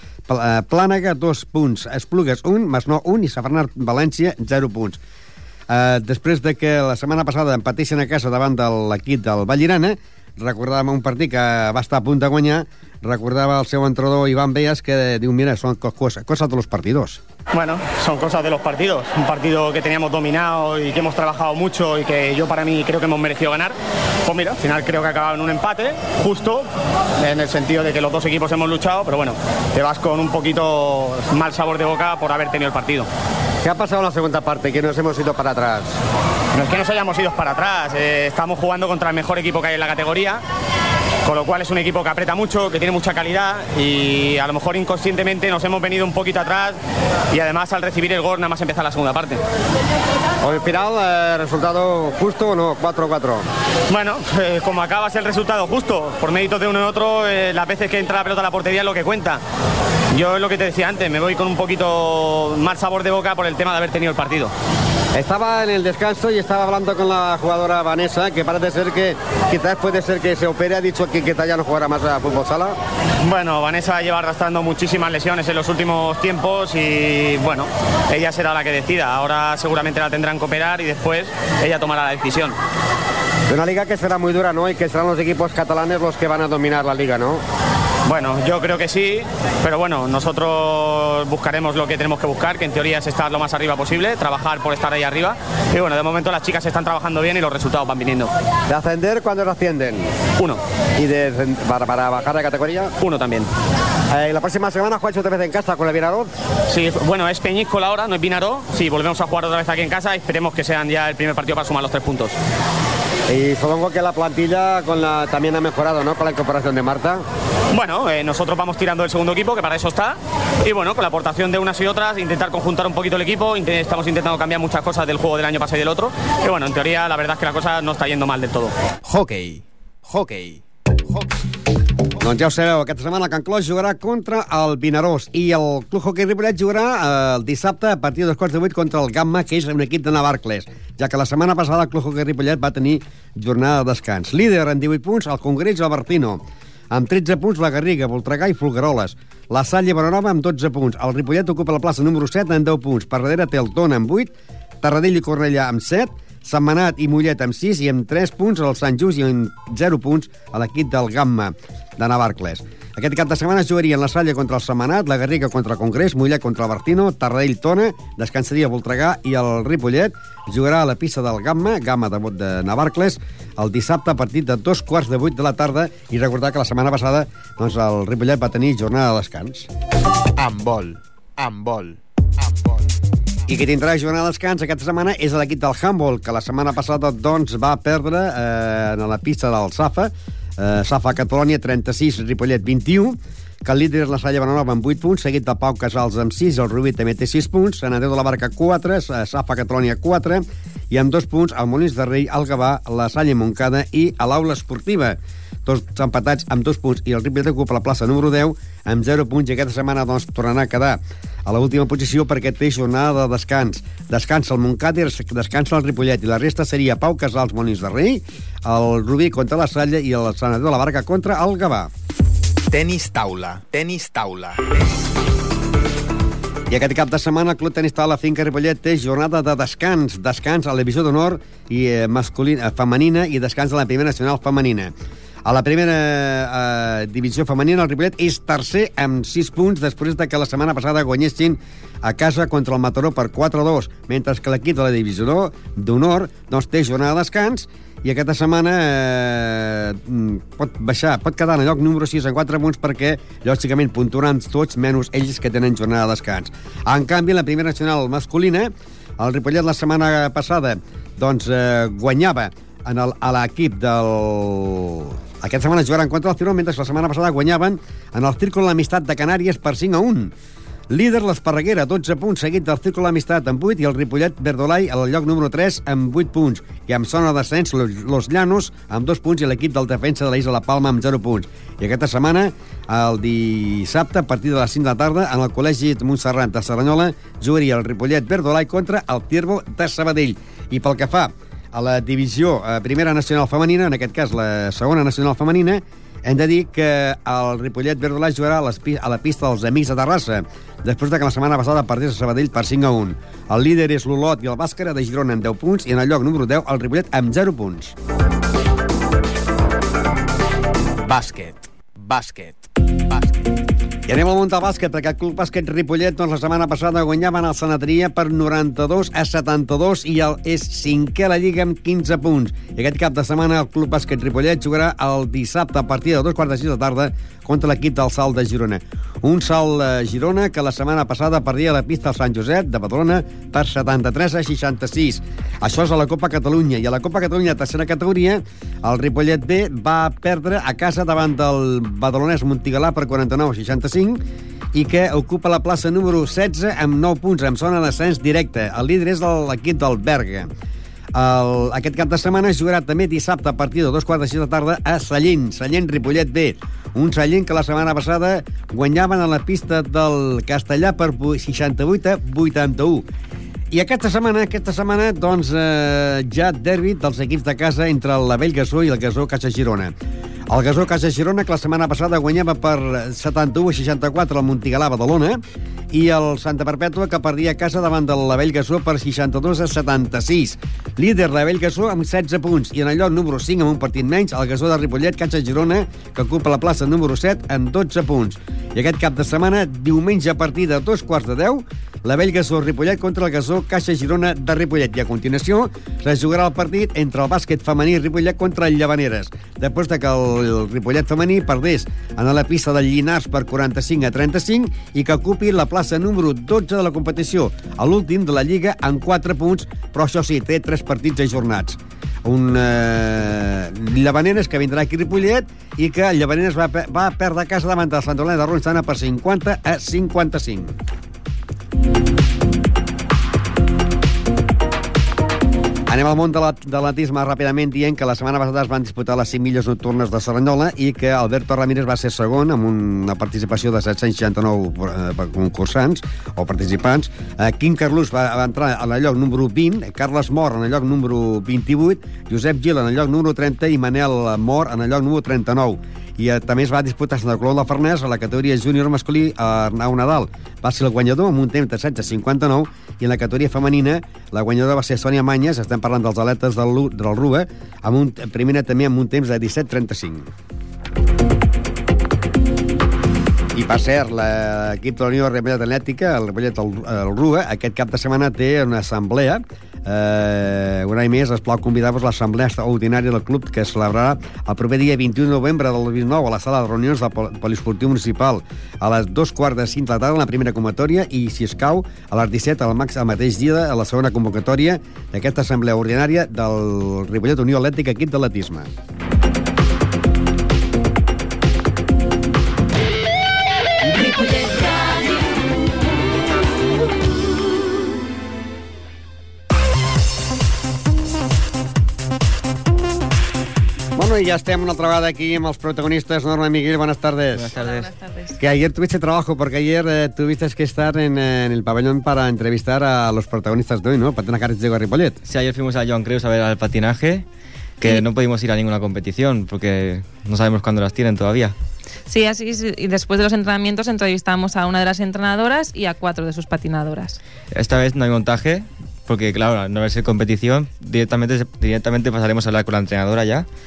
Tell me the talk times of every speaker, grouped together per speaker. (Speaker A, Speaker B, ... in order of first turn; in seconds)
Speaker A: 0.3-5.0, 5.7-17.2, 33.6-36.0, 50.4-53.5, 65.1-72.8, 83.5-87.4, 98.7-100.1, 101.0-102.9, 104.1-106.3, 113.3-117.2, 132.2-179.7, 183.5-221.9, 226.7-234.9, 235.4-270.3, 270.9-307.9, 314.1-350.5, 351.1-363.1, 363.7-369.9, 370.5-375.4, 375.9-420.8, 425.9-460.3, 463.5-488.7, 504.0-507.6, 508.4-515.2
Speaker B: 17.5-33.1, 36.5-40.4, 41.2-46.8, 47.3-49.4, 53.9-59.4, 60.1-64.5, 73.2-82.6, 88.0-98.3, 100.4-100.6, 103.0-103.5, 106.7-112.4, 117.7-128.7
Speaker C: 129.0-131.3, 180.4-182.8, 222.7-224.6, 311.0-313.5
Speaker D: 507.4-507.9, 515.2-517.3, 517.8-521.5, 527.5-533.5
Speaker E: 507.6-508.4, 522.1-527.2